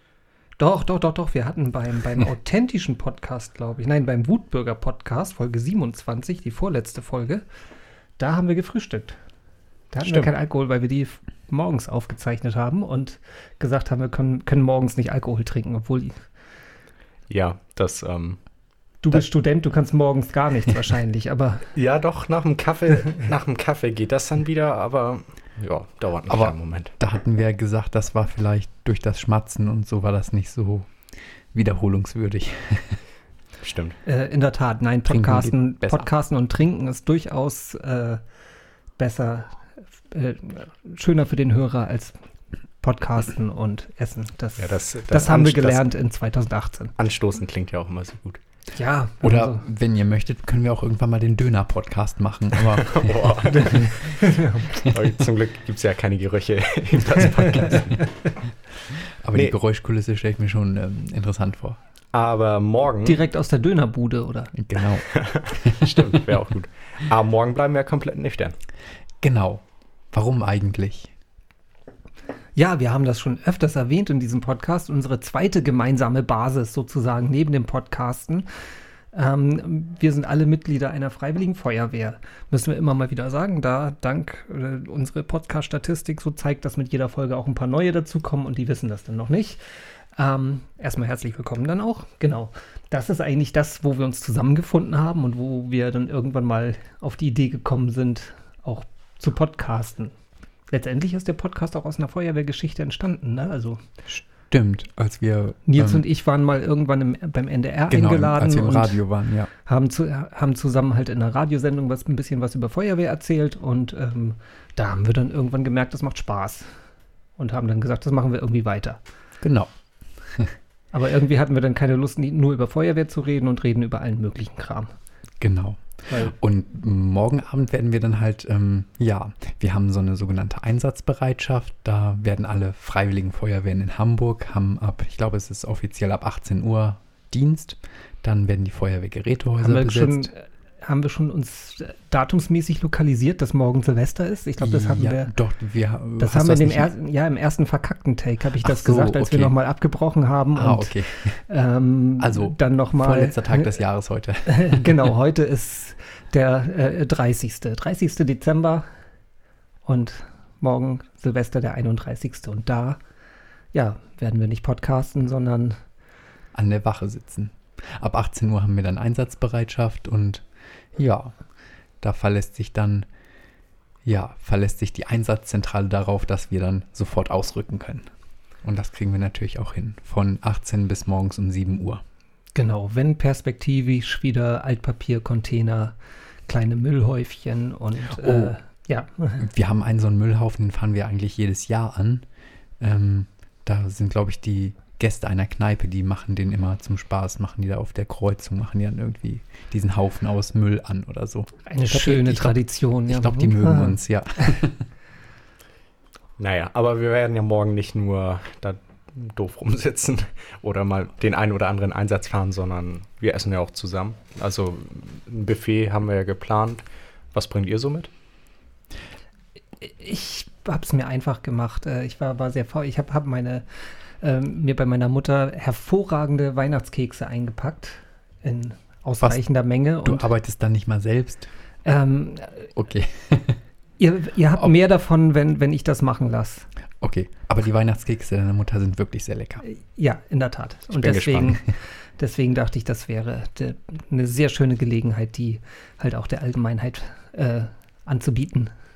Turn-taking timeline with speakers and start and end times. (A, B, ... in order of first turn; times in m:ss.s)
0:00.6-0:07.4 A
0:08.2-0:09.2 A
0:09.9-0:16.2 A
0:10.0-0:10.3 B
0:17.3-0:18.4 B
0:19.0-0:21.7 A
0:21.8-0:26.9 B
0:26.3-0:30.9 C
0:31.5-0:33.0 C
0:33.6-0:34.0 B
0:34.1-0:38.2 A
0:35.1-0:36.1 C
0:39.0-0:39.6 A
0:40.1-0:42.2 A
0:42.8-0:47.0 A
0:44.6-0:45.9 B
0:47.0-0:48.4 B
0:48.8-0:49.6 A
0:49.2-0:53.4 C
0:52.7-0:58.1 B
0:53.5-0:54.8 A
0:59.2-1:01.8 C
1:02.1-1:03.2 B
1:03.0-1:04.5 A
1:04.5-1:05.1 C
1:05.0-1:08.6 B
1:05.6-1:06.2 C
1:09.2-1:11.1 C
1:12.6-1:18.5 A
1:19.1-1:29.6 A
1:30.2-1:40.1 A
1:40.7-1:43.8 A
1:44.1-1:46.0 C
1:45.7-1:49.0 A
1:47.9-1:49.5 C
1:49.6-1:56.7 A
1:57.4-1:59.0 A
1:59.4-1:59.7 C
2:00.9-2:04.9 A
2:05.4-2:20.3 C
2:06.1-2:06.3 A
2:19.6-2:25.3 A
2:24.6-2:26.9 C
2:26.2-2:33.8 A
2:28.6-2:29.5 C
2:30.6-2:31.4 C
2:32.2-2:35.0 C
2:34.5-2:38.8 A
2:39.9-2:43.0 A
2:43.7-2:45.8 A
2:46.5-2:50.4 C
2:51.0-2:51.3 C
2:52.0-2:53.1 C
2:54.0-2:58.1 C
2:58.6-3:02.0 C
3:02.6-3:06.0 A
3:06.5-3:09.5 A
3:08.1-3:08.5 C
3:09.4-3:12.2 C
3:12.8-3:22.5 C
3:21.7-3:24.0 A
3:23.1-3:24.8 C
3:26.4-3:36.8 B
3:37.3-3:38.1 B
3:39.8-3:43.6 A
3:44.2-3:50.3 A
3:50.0-3:51.5 C
3:51.8-3:52.7 A
3:52.8-3:53.6 C
3:54.0-3:56.7 A
3:57.0-3:59.6 C
3:59.6-4:08.7 A
4:00.9-4:01.6 B